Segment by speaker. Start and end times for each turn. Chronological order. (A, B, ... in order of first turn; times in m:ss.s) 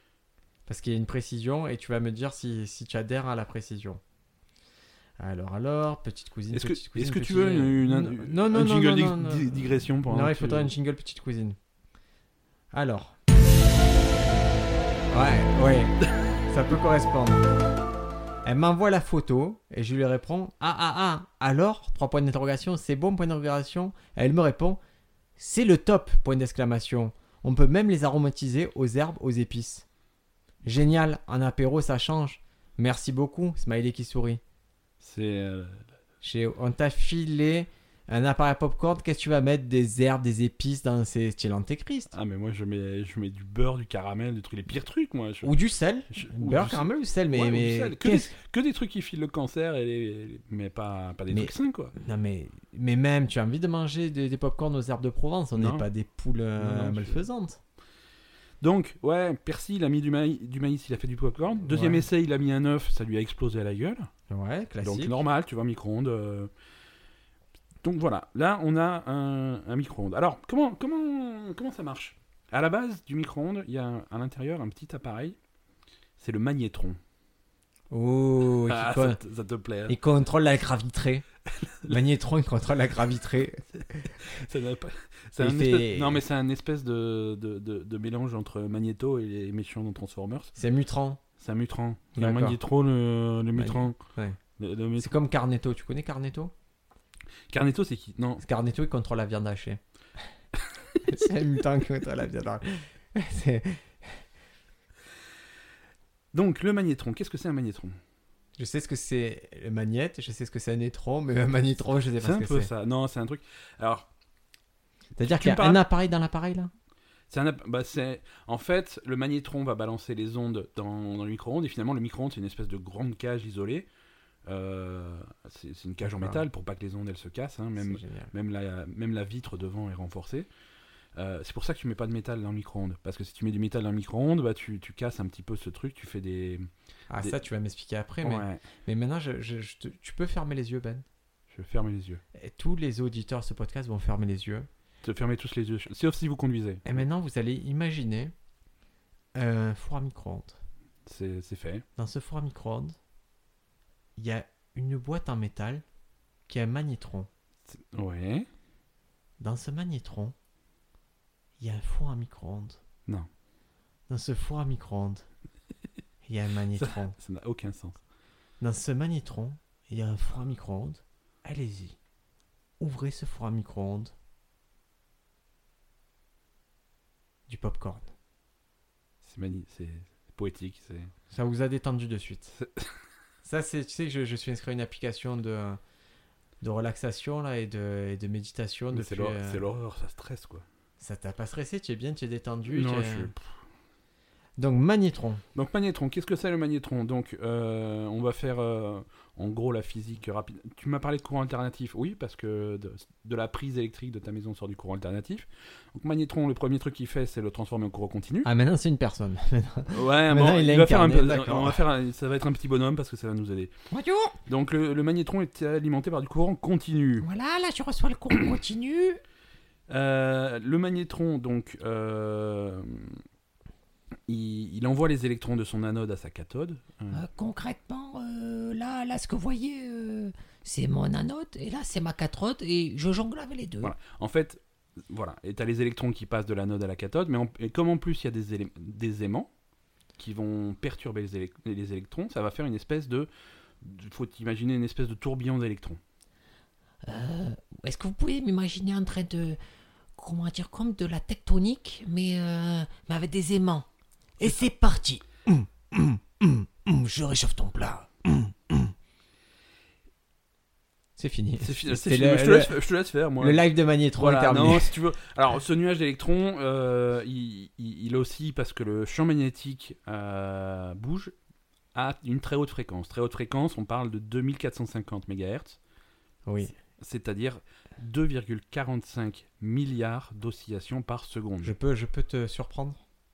0:00.7-0:04.0 A
0:05.2-0:11.6 A
0:06.5-0:10.7 B
0:12.7-0:13.2 A
0:15.1-0:17.4 A
0:18.4-0:24.8 A
0:25.4-0:29.8 A
0:30.6-0:34.4 A
0:35.0-0:35.8 B
0:36.2-0:42.1 A
0:42.1-0:45.5 B
0:45.4-0:48.3 A
0:46.1-0:51.9 B
0:51.3-0:57.6 A
0:55.6-0:55.9 B
0:56.6-0:57.2 B
0:58.6-1:04.1 B
1:01.7-1:02.0 A
1:04.3-1:05.2 A
1:04.8-1:06.5 B
1:07.8-1:15.4 B
1:16.2-1:17.0 B
1:17.9-1:19.2 A
1:18.7-1:19.9 B
1:19.9-1:21.2 A
1:21.5-1:22.0 B
1:21.9-1:24.1 A
1:23.8-1:30.5 B
1:25.4-1:26.2 A
1:30.6-1:31.2 A
1:31.4-1:34.0 B
1:32.1-1:32.6 A
1:33.6-1:34.4 A
1:34.6-1:35.1 B
1:35.0-1:36.5 A
1:37.5-1:38.4 B
1:38.4-1:39.8 A
1:41.0-1:44.2 A
1:46.3-1:48.0 B
1:48.6-1:52.7 A
1:52.2-1:54.1 B
1:55.2-1:55.8 B
1:55.2-1:56.7 A
1:57.3-2:03.9 B
2:04.4-2:10.5 B
2:06.0-2:06.4 A
2:07.8-2:08.3 A
2:11.1-2:17.4 B
2:17.1-2:21.0 A
2:18.2-2:18.6 B
2:21.5-2:22.2 B
2:22.4-2:24.7 A
2:25.0-2:26.9 B
2:26.8-2:28.3 A
2:29.3-2:30.6 A
2:31.0-2:31.8 B
2:32.0-2:33.0 A
2:34.2-2:35.8 A
2:36.5-2:37.3 A
2:37.7-2:38.5 B
2:39.4-2:40.3 A
2:41.6-2:42.8 A
2:44.1-2:45.2 A
2:46.2-2:47.1 A
2:46.8-2:48.0 B
2:48.6-2:52.0 A
2:52.8-2:54.1 A
2:57.5-2:58.1 A
2:59.2-3:01.1 B
3:01.3-3:02.6 A
3:02.6-3:02.9 B
3:03.4-3:05.8 A
3:06.6-3:09.6 A
3:08.9-3:10.6 B
3:11.0-3:13.3 A
3:12.7-3:13.5 B
3:14.6-3:15.4 A
3:15.5-3:28.5 B
3:28.4-3:31.8 A
3:29.9-3:33.7 B
3:33.9-3:34.3 A
3:34.5-3:37.3 B
3:37.2-3:39.2 C
3:39.9-3:43.2 B
3:44.3-3:47.2 B
3:47.1-3:53.9 C
3:53.8-3:59.5 B
4:00.2-4:03.3 B
4:03.8-4:06.0 B
4:07.1-4:09.6 C
4:10.2-4:13.8 C
4:14.4-4:15.2 C
4:15.5-4:18.9 A
4:17.1-4:18.0 C
4:21.2-4:22.8 A
4:21.6-4:31.3 B
4:23.4-4:24.9 A
4:31.9-4:35.8 B
4:36.4-4:36.7 A
4:37.0-4:41.7 B
4:41.6-4:43.0 A